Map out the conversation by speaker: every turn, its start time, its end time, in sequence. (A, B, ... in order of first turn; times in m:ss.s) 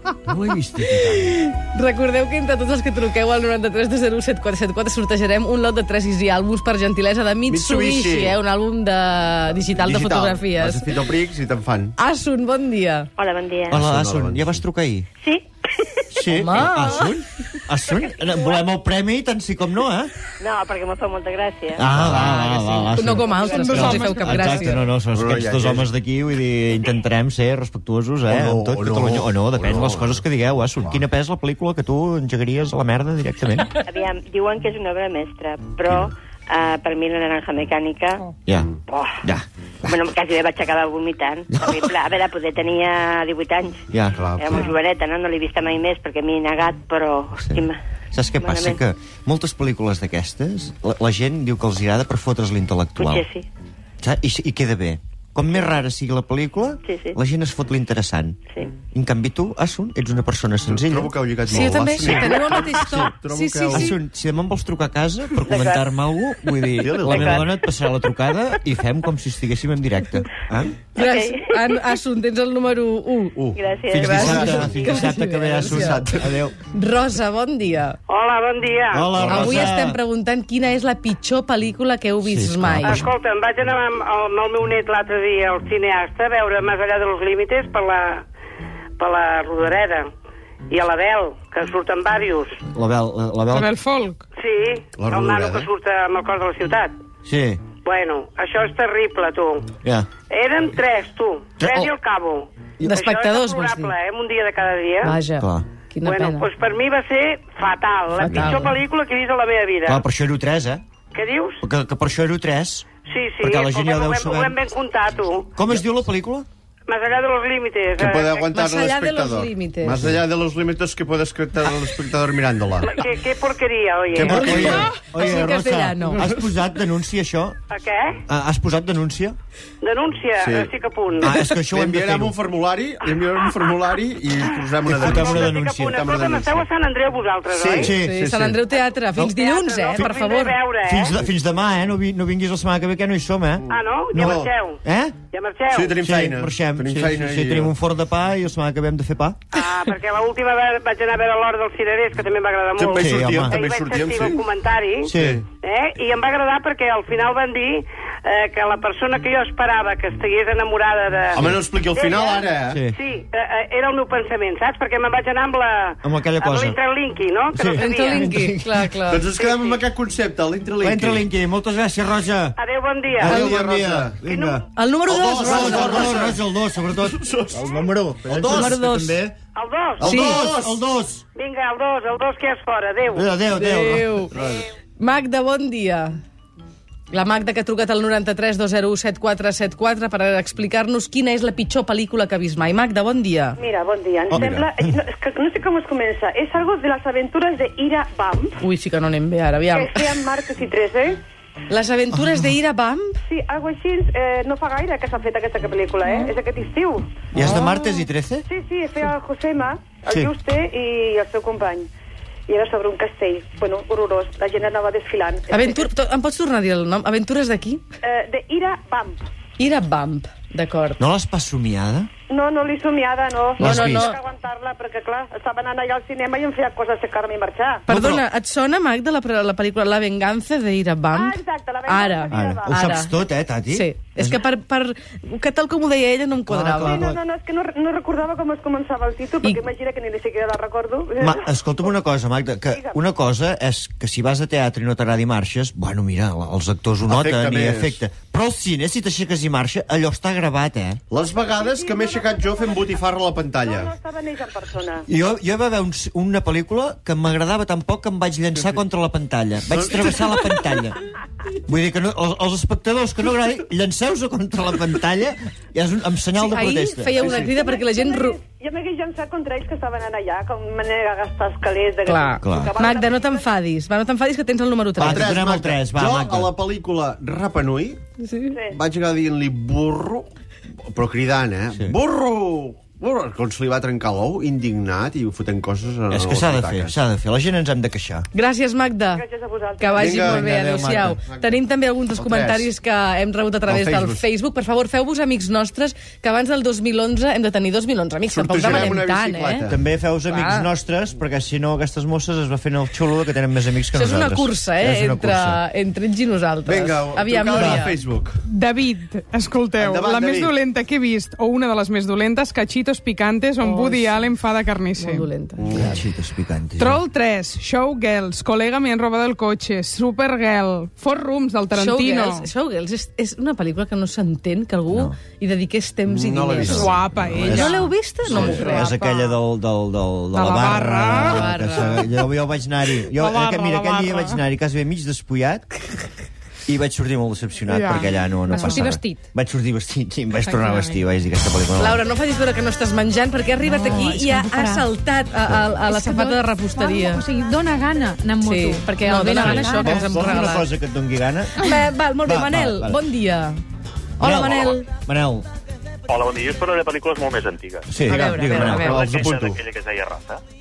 0:00.3-0:01.2 A
0:00.6-0:00.8 B
0:01.0-0:10.9 C
0:07.5-0:08.4 B
0:09.8-0:11.9 B
0:12.0-0:13.1 C
0:13.2-0:13.8 D
0:13.7-0:15.1 A
0:13.7-0:14.6 B
0:16.1-0:20.1 A
0:16.3-0:17.1 C
0:18.0-0:18.4 D
0:20.4-0:21.9 D
0:21.8-0:33.7 A
0:21.9-0:24.8 C
0:22.0-0:22.4 B
0:22.8-0:23.6 D
0:23.5-0:24.8 E
0:25.1-0:25.9 B
0:28.3-0:30.2 B
0:30.8-0:31.0 B
0:33.9-0:38.3 D
0:38.9-0:39.2 D
0:39.2-0:40.0 A
0:39.8-0:43.8 D
0:41.5-0:41.9 A
0:43.9-0:44.7 A
0:44.1-0:44.7 B
0:44.4-0:47.8 D
0:47.4-0:53.3 A
0:48.4-0:48.8 D
0:53.0-0:53.4 D
0:54.0-0:58.4 A
0:56.8-0:57.2 D
0:58.9-1:01.1 A
1:00.7-1:04.0 B
1:01.5-1:04.0 C
1:02.0-1:02.4 A
1:03.7-1:10.8 A
1:05.5-1:05.9 D
1:06.8-1:07.5 B
1:07.0-1:07.4 D
1:10.9-1:16.0 C
1:11.0-1:11.4 D
1:13.4-1:14.9 B
1:13.5-1:15.0 D
1:13.9-1:16.5 A
1:15.7-1:16.3 B
1:16.7-1:18.0 C
1:18.1-1:19.2 F
1:18.9-1:20.0 A
1:19.2-1:19.7 B
1:19.3-1:23.1 C
1:22.2-1:23.1 A
1:22.8-1:28.2 F
1:29.0-1:30.1 F
1:30.7-1:32.6 F
1:32.7-1:33.7 A
1:33.5-1:34.2 E
1:34.4-1:36.9 F
1:34.9-1:35.7 B
1:37.2-1:37.6 A
1:37.8-1:39.6 F
1:40.3-1:45.1 F
1:41.6-1:41.9 A
1:42.8-1:43.9 C
1:45.0-1:46.5 C
1:45.4-1:45.6 A
1:46.0-1:50.0 F
1:48.2-1:48.7 C
1:48.2-1:48.8 A
1:49.8-1:50.8 A
1:51.1-1:51.6 F
1:51.6-1:52.8 A
1:53.1-1:55.5 F
1:53.4-1:54.6 A
1:55.6-1:56.5 A
1:56.9-1:58.4 F
1:58.0-2:02.9 B
1:58.5-2:00.0 C
2:02.9-2:04.3 F
2:04.1-2:04.9 B
2:04.2-2:07.6 A
2:04.2-2:06.2 C
2:07.7-2:08.2 F
2:08.3-2:09.4 A
2:09.8-2:11.2 F
2:10.4-2:10.7 B
2:11.2-2:12.3 A
2:11.6-2:16.6 B
2:13.4-2:13.7 F
2:14.8-2:16.0 A
2:15.1-2:17.9 F
2:17.6-2:18.2 A
2:17.6-2:18.6 B
2:18.0-2:20.6 C
2:19.2-2:21.1 F
2:20.8-2:25.2 A
2:23.6-2:24.5 B
2:23.7-2:24.8 F
2:25.3-2:25.9 F
2:25.7-2:27.7 B
2:26.0-2:29.4 A
2:29.5-2:35.1 F
2:32.8-2:34.4 B
2:32.9-2:33.6 A
2:35.0-2:35.4 A
2:35.2-2:35.4 B
2:35.6-2:48.3 F
2:41.3-2:42.8 B
2:42.7-2:42.9 A
2:46.0-2:46.8 A
2:47.5-2:48.9 A
2:47.7-2:49.3 C
2:49.1-2:51.2 B
2:49.3-2:49.8 F
2:50.8-2:52.5 A
2:52.6-2:53.4 F
2:53.2-2:54.6 A
2:53.2-2:54.2 B
2:54.3-2:54.6 F
2:54.7-2:56.2 C
2:55.1-2:57.6 B
2:55.3-2:59.3 A
2:58.2-2:58.9 B
2:58.5-2:59.2 C
2:59.5-3:00.4 F
3:00.0-3:01.2 A
3:00.0-3:00.7 B
3:00.0-3:00.5 C
3:01.4-3:03.2 F
3:03.1-3:04.2 A
3:03.5-3:04.3 C
3:04.3-3:04.6 B
3:05.0-3:06.2 C
3:07.1-3:13.6 C
3:13.6-3:18.6 G
3:14.3-3:14.7 B
3:18.6-3:20.1 C
3:19.7-3:21.2 G
3:21.7-3:23.2 C
3:22.1-3:22.5 A
3:23.2-3:27.2 G
3:27.3-3:28.4 A
3:27.4-3:27.7 C
3:28.5-3:31.9 G
3:32.5-3:35.8 G
3:35.5-3:37.8 C
3:38.0-3:39.2 G
3:39.6-3:41.0 C
3:41.0-3:42.1 A
3:42.3-3:47.8 G
3:43.6-3:44.2 C
3:43.6-3:44.1 A
3:47.9-3:48.2 A
3:47.9-3:53.1 C
3:51.1-3:52.9 G
3:52.3-3:54.4 A
3:53.7-3:57.0 C
3:56.4-3:57.2 A
3:56.8-4:01.4 G
4:01.2-4:11.0 A
4:02.7-4:03.0 G
4:07.1-4:08.0 B
4:11.1-4:13.9 B
4:11.2-4:15.0 G
4:15.1-4:21.0 A
4:19.8-4:20.2 B
4:21.6-4:27.2 A
4:26.4-4:28.4 C
4:27.1-4:33.4 G
4:32.0-4:35.4 C
4:32.4-4:32.8 A
4:35.0-4:36.5 A
4:35.0-4:38.0 B
4:38.2-4:38.6 C
4:38.5-4:38.8 G
4:38.7-4:40.3 B
4:40.8-4:46.9 B
4:46.1-4:48.3 A
4:48.3-4:49.2 C
4:49.1-4:50.2 G
4:49.8-4:59.7 C
4:50.0-4:50.6 B
4:50.1-4:51.2 A
4:51.3-4:51.6 B
4:52.1-4:52.7 B
4:53.7-4:54.2 B
4:58.3-4:59.9 B
4:59.7-5:05.6 A
5:00.3-5:00.7 C
5:03.9-5:08.0 C
5:06.6-5:08.4 B
5:07.5-5:07.8 A
5:08.4-5:15.3 E
5:09.8-5:10.6 B
5:13.6-5:14.3 C
5:14.9-5:15.9 C
5:15.6-5:16.0 B
5:15.7-5:17.0 A
5:16.8-5:22.5 E
5:21.7-5:28.9 C
5:24.9-5:25.2 A
5:26.0-5:27.6 B
5:26.6-5:29.4 E
5:27.3-5:27.7 A
5:28.2-5:28.8 B
5:28.2-5:35.7 A
5:30.3-5:31.9 E
5:31.2-5:32.0 C
5:33.0-5:34.4 E
5:36.6-5:42.0 A
5:37.6-5:39.0 E
5:38.6-5:39.2 H
5:40.4-5:41.0 E
5:41.8-5:47.3 C
5:43.6-5:44.9 H
5:45.4-5:45.7 A
5:45.9-5:50.4 H
5:48.4-5:50.7 C
5:49.4-5:51.5 A
5:51.6-5:53.6 C
5:52.2-5:53.0 A
5:54.2-5:54.8 C
5:54.2-5:55.5 A
5:54.3-5:54.8 I
5:56.1-5:57.9 I
5:57.9-5:59.0 A
5:58.1-5:59.0 C
5:58.1-5:59.6 B
5:58.8-6:00.4 I